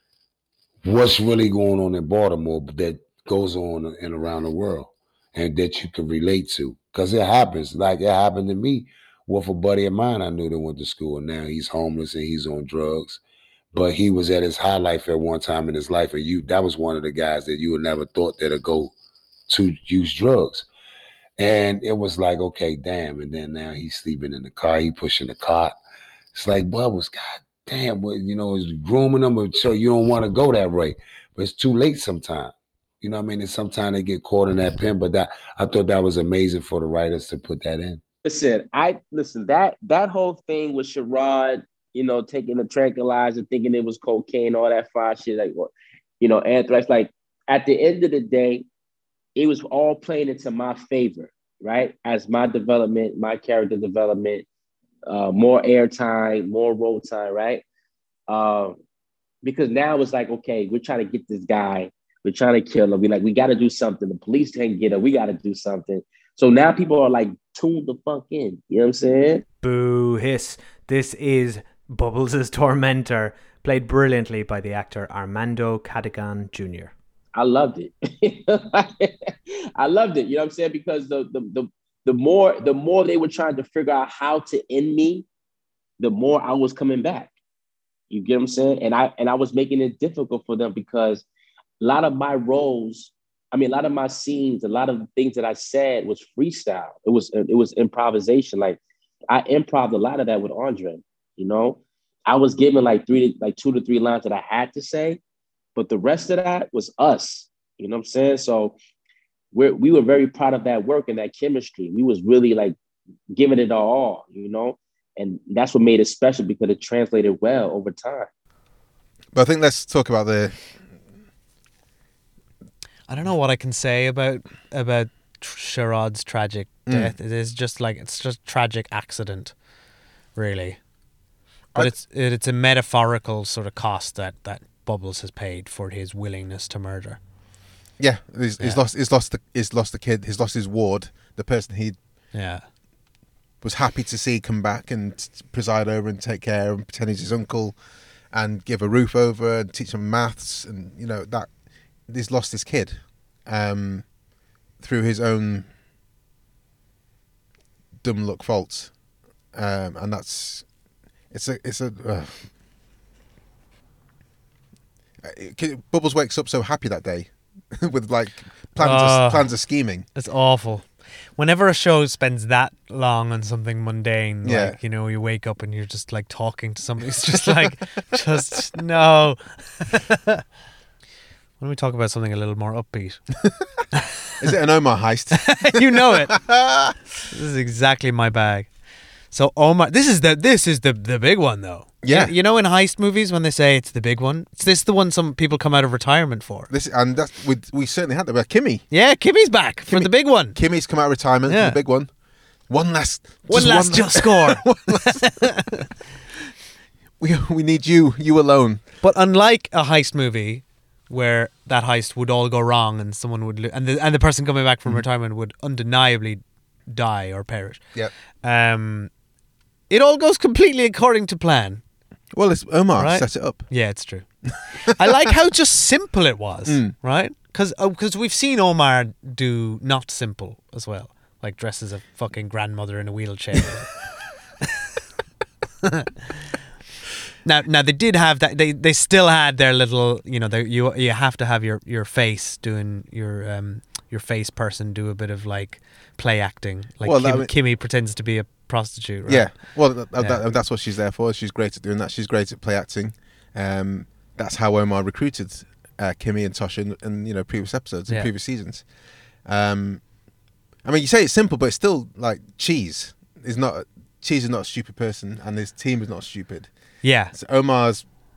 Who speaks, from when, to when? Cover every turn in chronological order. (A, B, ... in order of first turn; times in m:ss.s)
0:00.8-0:13.2 A
0:13.7-0:18.9 A
0:19.5-0:20.7 A
0:21.4-0:25.8 A
0:26.3-0:38.0 A
0:38.2-0:48.7 B
0:49.4-0:54.4 B
0:55.0-0:57.6 B
0:58.3-0:58.8 B
0:59.4-1:09.4 B
1:09.6-1:16.9 C
1:17.3-1:19.1 B
1:19.8-1:25.2 B
1:26.0-1:27.3 B
1:28.1-1:31.2 B
1:31.8-1:38.8 B
1:39.3-1:45.2 B
1:45.8-1:48.8 B
1:49.5-1:52.8 B
1:53.3-1:58.3 B
1:59.3-2:00.7 D
2:03.1-2:09.6 E
2:06.8-2:07.1 D
2:10.3-2:10.8 E
2:11.8-2:17.2 E
2:18.0-2:22.0 D
2:18.6-2:18.8 E
2:22.3-2:22.7 E
2:23.6-2:27.8 D
2:28.3-2:34.2 D
2:34.8-2:35.7 D
2:38.0-2:39.0 D
2:39.5-2:40.7 D
2:41.3-2:42.5 D
2:45.2-2:50.1 D
2:48.8-2:49.6 E
2:50.1-3:00.4 E
2:54.4-2:54.8 D
2:57.4-2:57.7 D
3:01.6-3:03.2 E
3:04.4-3:07.0 D
3:05.4-3:06.4 E
3:07.3-3:08.7 E
3:09.3-3:16.7 E
3:12.0-3:12.3 D
3:16.7-3:18.9 D
3:18.9-3:20.6 E
3:19.8-3:22.1 D
3:21.5-3:21.8 E
3:22.6-3:25.4 D
3:23.5-3:25.5 E
3:27.2-3:28.8 D
3:29.0-3:39.1 E
3:39.9-3:41.8 E
3:42.3-3:43.7 D
3:43.0-3:54.0 E
3:46.6-3:47.0 D
3:57.4-4:10.4 E
4:07.0-4:07.5 D
4:09.2-4:20.3 D
4:20.8-4:28.0 D
4:27.0-4:27.3 E